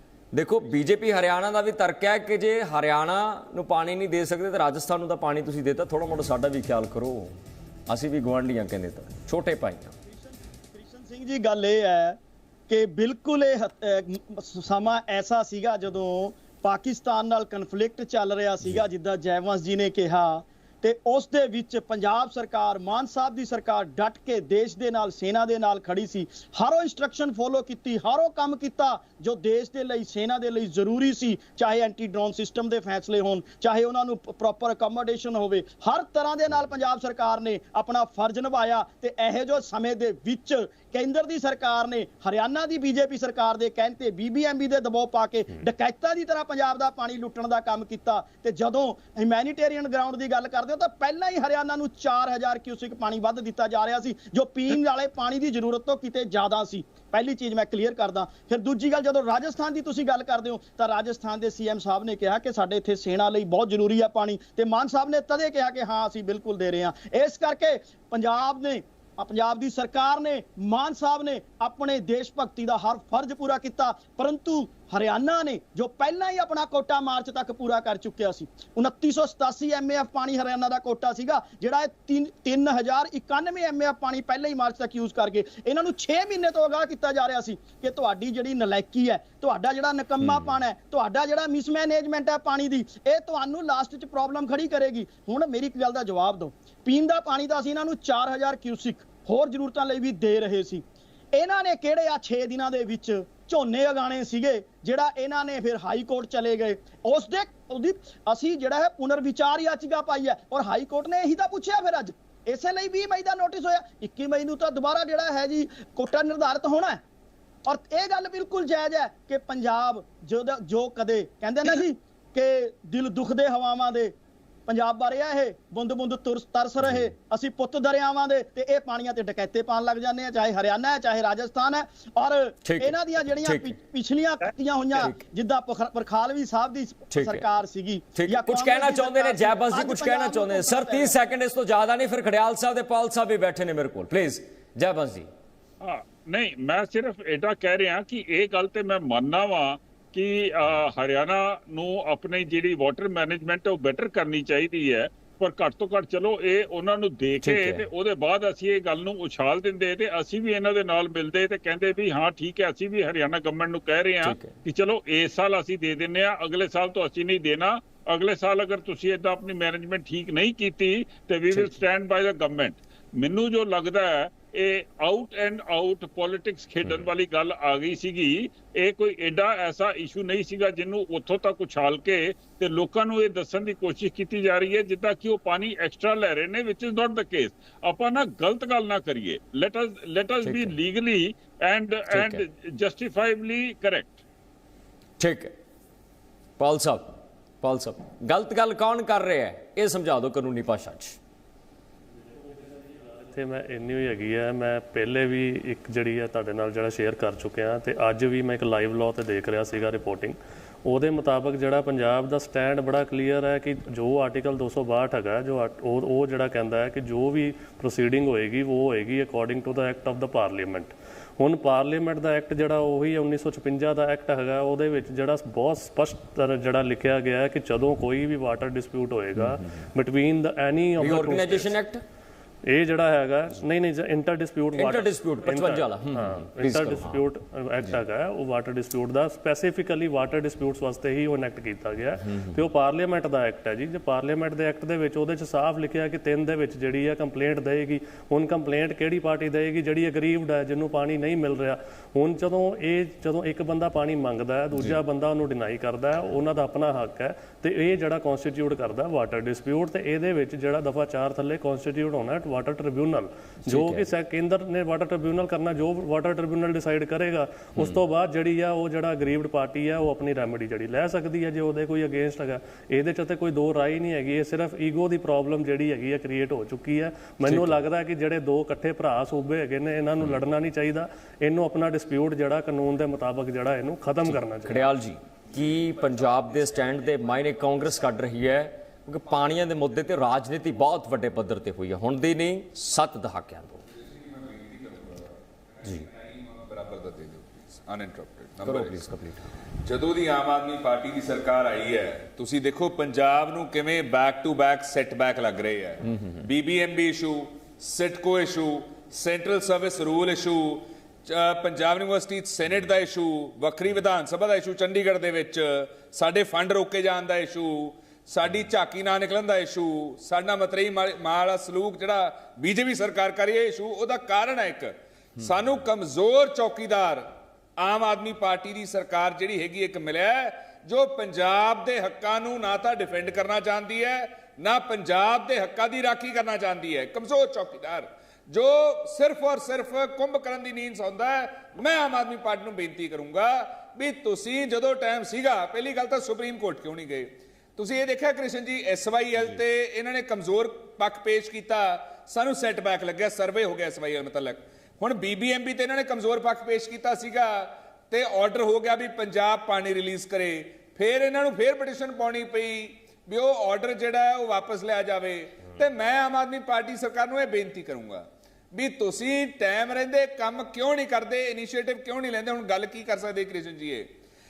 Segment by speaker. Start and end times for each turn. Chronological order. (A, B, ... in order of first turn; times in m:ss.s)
0:00.3-0:09.9 A
0:10.1-1:57.0 B
1:30.2-1:30.6 A
1:57.6-2:04.1 B
2:04.7-2:21.2 B
2:06.8-2:07.1 A
2:12.6-2:13.7 A
2:15.0-2:15.2 A
2:17.1-2:17.4 A
2:18.2-2:25.3 A
2:25.8-3:14.2 C
2:37.4-2:37.9 A
2:44.2-2:44.5 A
2:51.5-2:51.8 A
3:10.4-3:10.7 A
3:12.1-3:12.4 A
3:15.2-3:15.5 A
3:16.6-3:21.2 A
3:22.3-3:51.7 D
3:49.4-3:49.7 A
3:51.0-3:52.0 A
3:52.7-4:44.9 D
3:54.7-3:57.2 A
4:14.7-4:15.0 A
4:23.6-4:24.1 A
4:37.4-4:37.8 A
4:44.2-4:53.8 A
4:53.9-4:59.0 E
4:58.6-4:59.5 A
4:59.8-6:14.1 E